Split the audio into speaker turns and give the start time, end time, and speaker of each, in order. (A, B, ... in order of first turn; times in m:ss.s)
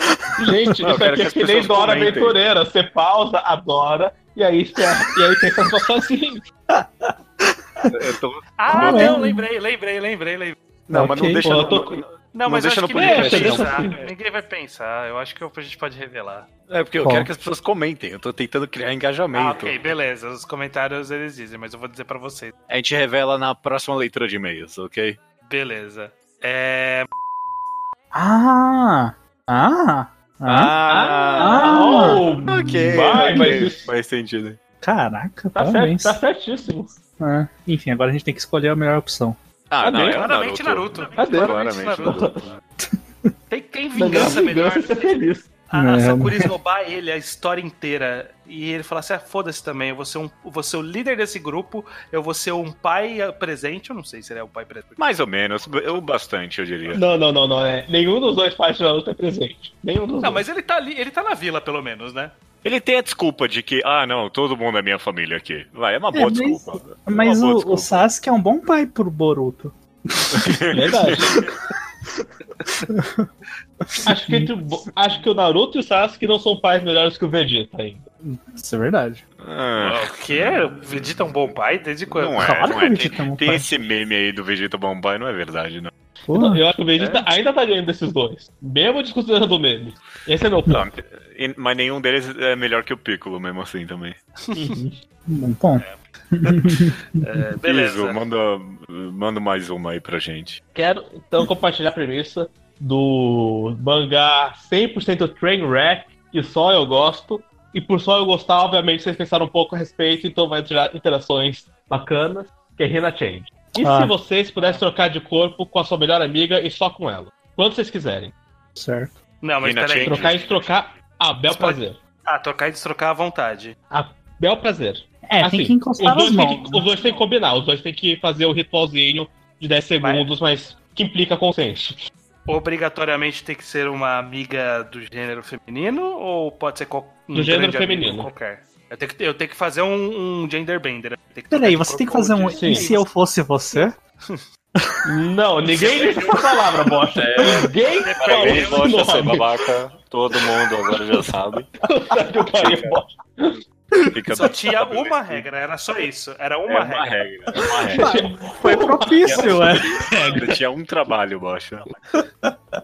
0:00.4-0:06.4 A
0:00.8-0:02.4 B
0:06.7-0:07.1 C
0:07.8-0:09.3 B
0:08.6-0:10.6 D
0:08.7-0:09.4 C
0:10.9-0:13.8 B
0:10.9-0:11.5 C
0:11.0-0:12.0 A
0:12.3-0:16.5 D
0:13.0-0:14.0 A
0:16.7-0:19.8 B
0:17.0-0:17.3 C
0:19.3-0:22.5 D
0:22.7-0:25.2 B
0:25.4-0:27.1 D
0:28.1-0:30.7 C
0:30.4-0:34.6 B
0:30.8-0:33.9 A
0:31.4-0:32.2 C
0:34.8-0:36.2 C
0:35.6-0:36.9 A
0:37.2-0:39.4 C
0:39.7-0:42.6 B
0:39.8-0:40.2 A
0:40.0-0:42.3 D
0:41.2-0:42.4 A
0:42.8-0:43.3 C
0:43.5-0:45.1 D
0:44.0-0:45.5 A
0:45.7-0:55.0 D
0:45.7-0:46.5 C
0:55.0-0:57.0 B
0:56.9-1:00.4 A
1:00.2-1:02.4 D
1:02.6-1:08.0 B
1:06.1-1:10.6 C
1:10.3-1:11.2 B
1:10.7-1:11.4 A
1:12.9-1:13.3 C
1:13.9-1:14.5 C
1:14.0-1:18.0 A
1:18.2-1:19.2 C
1:19.4-1:21.1 B
1:19.8-1:22.6 D
1:22.1-1:25.9 B
1:22.4-1:23.7 C
1:26.3-1:26.6 C
1:26.3-1:30.8 A
1:27.0-1:27.3 D
1:30.7-1:34.2 B
1:34.5-1:34.8 D
1:34.5-1:35.0 A
1:35.3-1:37.4 C
1:35.8-1:38.2 D
1:37.6-1:40.6 B
1:40.7-1:58.3 A
1:53.8-1:54.1 C
1:58.8-1:59.2 C
1:59.4-2:00.4 D
1:59.6-2:00.7 B
2:00.0-2:02.0 A
2:01.5-2:03.8 D
2:03.9-2:12.0 A
2:05.2-2:06.9 C
2:10.0-2:10.3 D
2:12.4-2:23.0 D
2:17.3-2:18.3 A
2:21.5-2:24.0 C
2:22.6-2:22.9 A
2:23.7-2:24.4 D
2:25.0-2:29.5 A
2:25.7-2:26.6 D
2:27.1-2:31.7 B
2:28.0-2:29.3 D
2:31.8-2:33.6 A
2:32.5-2:33.0 B
2:34.1-2:35.4 B
2:34.4-2:37.3 D
2:36.7-2:38.2 B
2:37.9-2:40.6 A
2:38.0-2:39.9 C
2:39.2-2:41.9 B